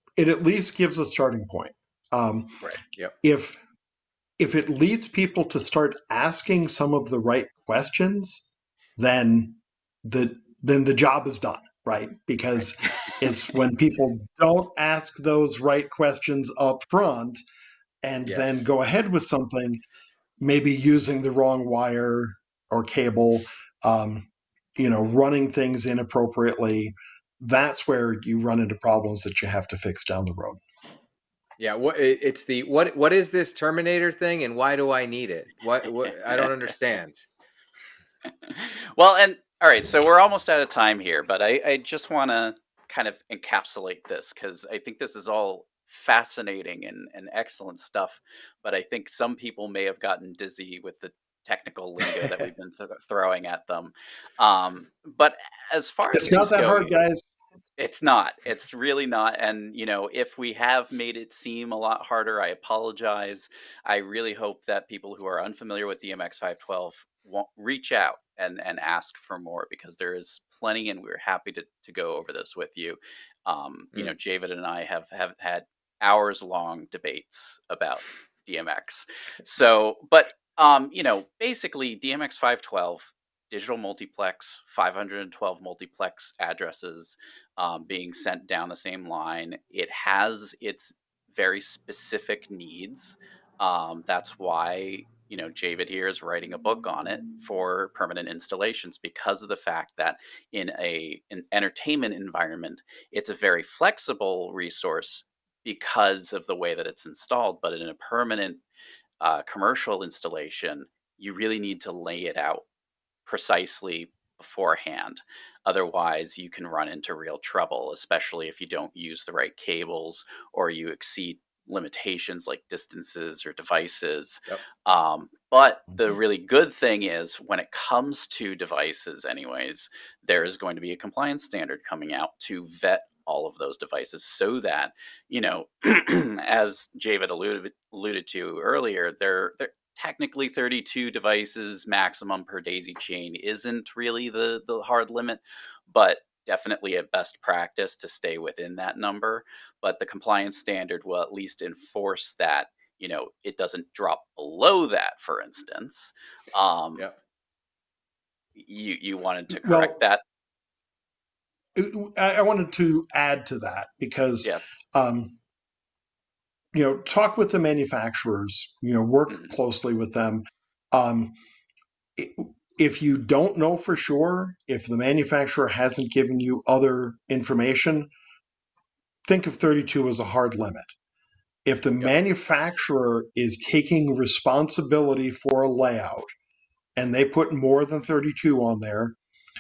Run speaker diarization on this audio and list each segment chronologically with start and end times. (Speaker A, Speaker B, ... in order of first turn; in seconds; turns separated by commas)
Speaker A: 0.2-2.7, Speaker A: 3.2-3.6, Speaker A: 4.4-8.4, Speaker A: 9.0-17.4, Speaker A: 18.0-19.8, Speaker B: 18.2-18.6, Speaker A: 20.4-30.6, Speaker B: 31.6-37.2, Speaker C: 38.4-57.0, Speaker A: 56.1-57.3, Speaker C: 57.8-108.6, Speaker C: 109.2-112.6, Speaker C: 113.3-157.1, Speaker C: 158.6-160.2, Speaker A: 159.5-159.9, Speaker A: 161.8-165.4, Speaker C: 164.4-164.7, Speaker A: 166.7-171.4, Speaker A: 172.2-178.1, Speaker A: 179.3-180.9, Speaker A: 181.7-186.3, Speaker A: 187.0-189.2